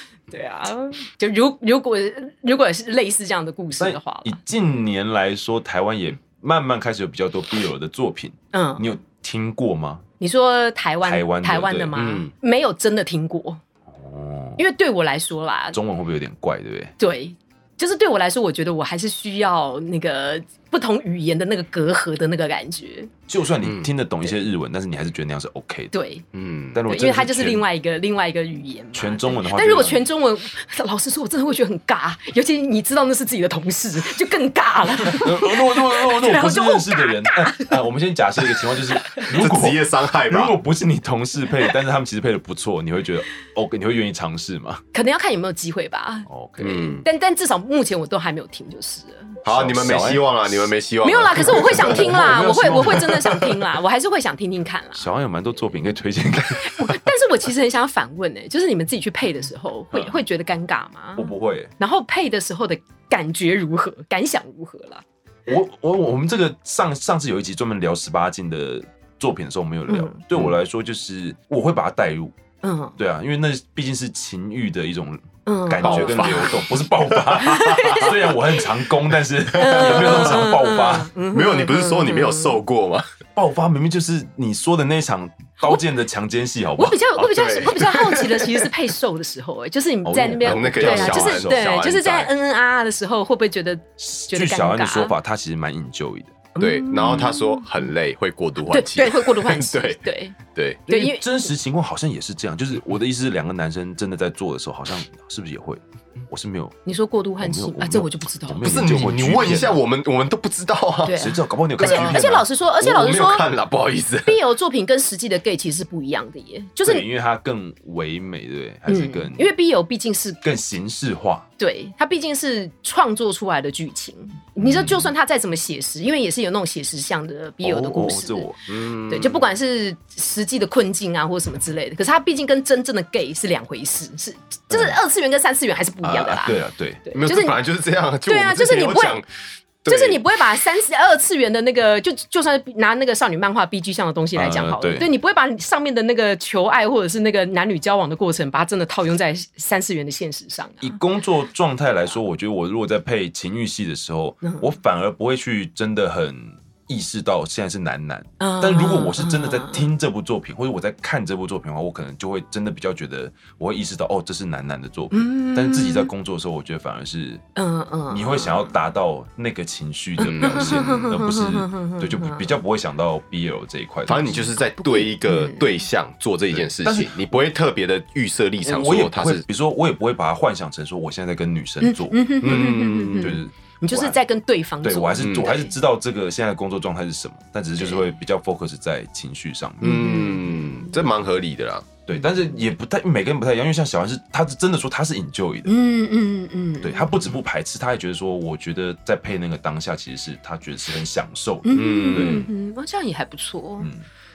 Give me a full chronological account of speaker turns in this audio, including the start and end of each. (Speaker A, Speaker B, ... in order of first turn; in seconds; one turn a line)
Speaker A: 0.3-4.4
Speaker B: 3.8-10.1
Speaker A: 8.5-8.8
Speaker A: 10.2-13.6
Speaker B: 11.0-11.9
Speaker C: 11.9-12.3
Speaker B: 13.9-14.6
Speaker A: 14.6-15.8
Speaker B: 15.7-16.9
Speaker A: 17.0-23.1
Speaker B: 23.3-25.9
Speaker C: 23.6-23.9
Speaker A: 25.9-26.2
Speaker C: 26.3-26.8
Speaker B: 26.7-27.6
Speaker A: 26.9-37.8
Speaker B: 28.9-30.0
Speaker B: 35.0-44.8
Speaker C: 39.3-40.6
Speaker A: 44.9-49.4
Speaker B: 46.3-46.9
Speaker C: 46.6-47.0
Speaker C: 49.4-52.3
Speaker B: 49.5-50.5
Speaker A: 51.0-55.1
Speaker B: 51.4-53.6
Speaker B: 55.0-57.0
Speaker A: 56.5-65.0
Speaker B: 61.2-61.7
Speaker B: 65.5-72.3
Speaker A: 69.9-70.2
Speaker A: 72.6-73.0
Speaker B: 73.0-81.1
Speaker A: 75.5-76.6
Speaker C: 75.8-78.1
Speaker A: 77.4-78.6
Speaker C: 79.6-80.4
Speaker A: 79.6-82.6
Speaker C: 81.3-83.1
Speaker B: 83.3-87.0
Speaker A: 86.8-95.1
Speaker C: 87.2-88.7
Speaker B: 90.0-91.8
Speaker C: 90.4-92.3
Speaker B: 94.0-96.3
Speaker A: 96.5-97.6
Speaker C: 96.6-100.8
Speaker A: 98.7-100.4
Speaker B: 100.9-106.8
Speaker A: 100.9-101.3
Speaker A: 106.8-109.0
Speaker B: 107.4-109.8
Speaker C: 108.6-112.2
Speaker A: 111.0-113.5
Speaker B: 111.1-112.4
Speaker C: 112.8-114.4
Speaker A: 114.2-117.0
Speaker B: 116.8-119.5
Speaker A: 118.9-120.4
Speaker B: 120.4-121.5
Speaker A: 121.6-128.5
Speaker B: 124.6-125.1
Speaker B: 127.6-128.6
Speaker C: 128.7-129.5
Speaker A: 129.1-137.6
Speaker B: 134.7-135.0
Speaker B: 136.0-137.0
Speaker C: 137.1-139.2
Speaker A: 138.2-139.2
Speaker C: 139.8-140.2
Speaker A: 139.9-151.0
Speaker B: 144.3-145.1
Speaker B: 150.8-167.4
Speaker A: 158.4-159.8
Speaker A: 165.1-166.1
Speaker A: 167.6-168.7
Speaker B: 168.1-174.5
Speaker C: 170.2-170.9
Speaker A: 170.2-172.5
Speaker C: 174.1-179.4
Speaker A: 174.8-175.7
Speaker B: 176.5-177.2
Speaker B: 178.6-184.2
Speaker A: 181.8-185.7
Speaker C: 182.4-183.4
Speaker B: 184.8-190.2
Speaker C: 185.2-185.5
Speaker A: 187.8-188.0
Speaker C: 189.8-191.9
Speaker A: 189.8-190.7
Speaker B: 192.1-195.7
Speaker A: 195.7-197.1
Speaker B: 196.8-202.5
Speaker A: 201.6-203.9
Speaker C: 201.7-202.5
Speaker B: 203.8-204.1